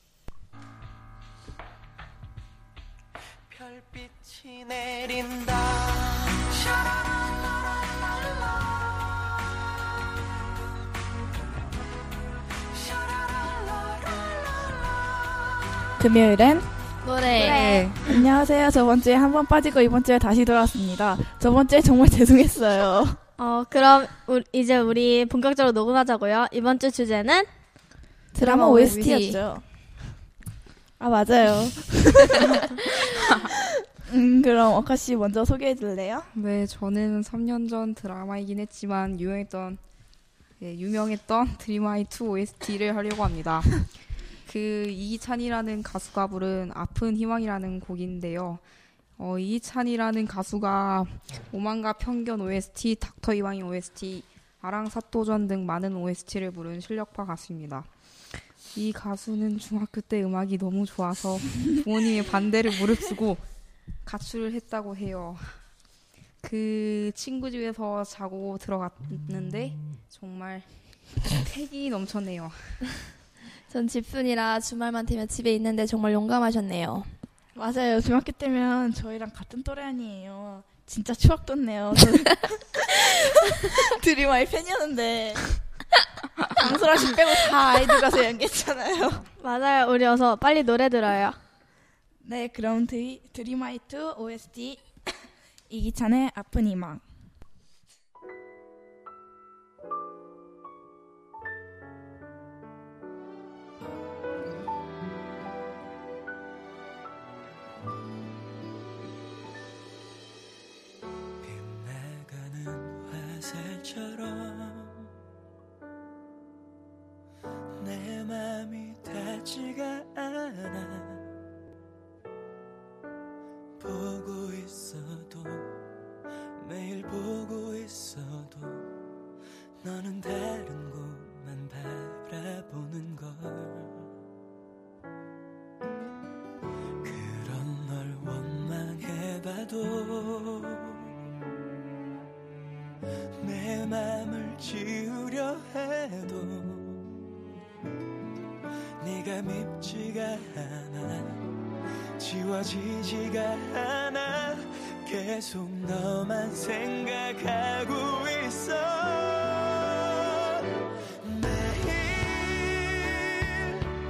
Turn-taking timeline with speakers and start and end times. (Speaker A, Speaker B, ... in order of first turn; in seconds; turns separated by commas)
Speaker A: 16.0-16.7, Speaker B: 17.0-17.9, Speaker C: 17.3-17.7, Speaker D: 17.4-18.1, Speaker A: 18.0-23.2, Speaker C: 23.4-27.5, Speaker A: 28.3-29.6, Speaker B: 28.3-29.4, Speaker A: 31.0-36.3, Speaker D: 36.3-39.8, Speaker D: 40.6-43.8, Speaker D: 44.5-48.6, Speaker D: 49.2-57.9, Speaker D: 58.7-63.4, Speaker D: 64.0-65.6, Speaker D: 66.4-70.7, Speaker D: 71.2-72.8, Speaker B: 73.7-77.1, Speaker A: 77.5-85.5, Speaker A: 86.4-89.3, Speaker C: 89.4-91.4, Speaker A: 92.2-94.8, Speaker A: 95.7-97.0, Speaker E: 111.4-115.1, Speaker E: 117.8-121.2, Speaker E: 123.8-125.7, Speaker E: 126.6-128.9, Speaker E: 129.8-134.0, Speaker E: 137.0-141.1, Speaker E: 143.4-147.0, Speaker E: 149.0-151.4, Speaker E: 152.2-160.6, Speaker E: 161.2-163.8